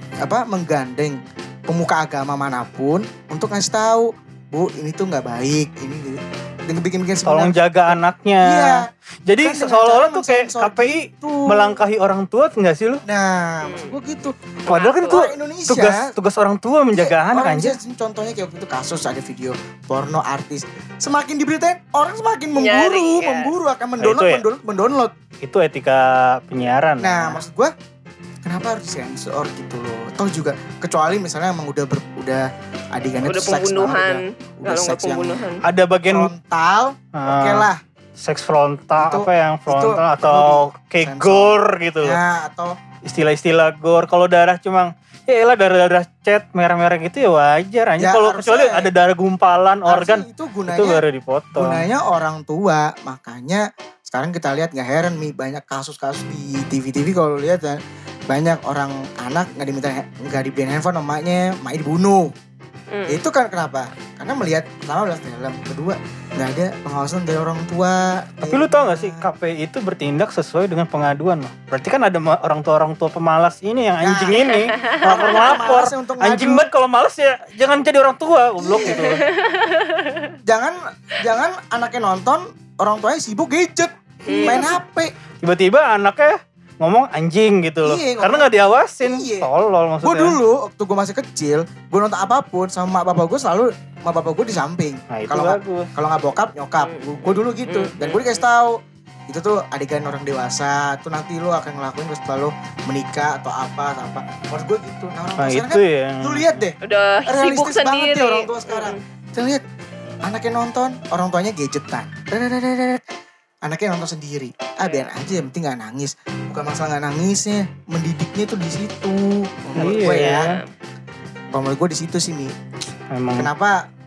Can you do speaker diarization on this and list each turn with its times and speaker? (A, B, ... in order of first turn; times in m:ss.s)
0:00.2-0:11.8 A
0:07.3-0:13.0 B
0:13.1-0:14.4 A
0:13.6-0:14.0 C
0:14.7-0:17.8 B
0:14.7-0:15.2 C
0:15.0-0:16.0 A
0:17.0-0:25.1 A
0:22.6-0:23.5 C
0:24.0-0:24.4 B
0:25.4-0:27.4 B
0:27.0-0:27.7 A
0:28.4-0:35.5 A
0:33.2-0:35.6 C
0:35.6-0:36.3 B
0:36.1-0:37.8 A
0:37.1-0:42.2 B
0:39.0-0:42.7 A
0:43.1-0:51.9 B
0:48.0-0:48.9 A
0:49.9-0:51.0 A
0:51.6-1:02.3 A
1:02.9-1:03.2 C
1:03.1-1:09.3 A
1:08.4-1:19.2 B
1:14.0-1:16.7 A
1:14.5-1:15.8 C
1:18.7-1:19.1 A
1:18.8-1:20.3 C
1:20.4-1:25.1 A
1:24.3-1:24.7 C
1:25.4-1:30.4 B
1:27.8-1:28.5 A
1:29.0-1:29.5 A
1:30.0-1:38.8 A
1:35.1-1:35.9 B
1:36.8-1:38.4 C
1:39.3-1:46.8 A
1:45.4-1:46.6 B
1:46.8-1:49.0 C
1:47.3-1:49.6 A
1:50.2-1:53.0 A
1:53.6-2:00.5 A
1:54.8-1:55.1 C
1:59.8-2:00.6 B
2:00.2-2:00.7 C
2:01.5-2:02.5 A
2:03.1-2:03.5 B
2:03.4-2:03.8 A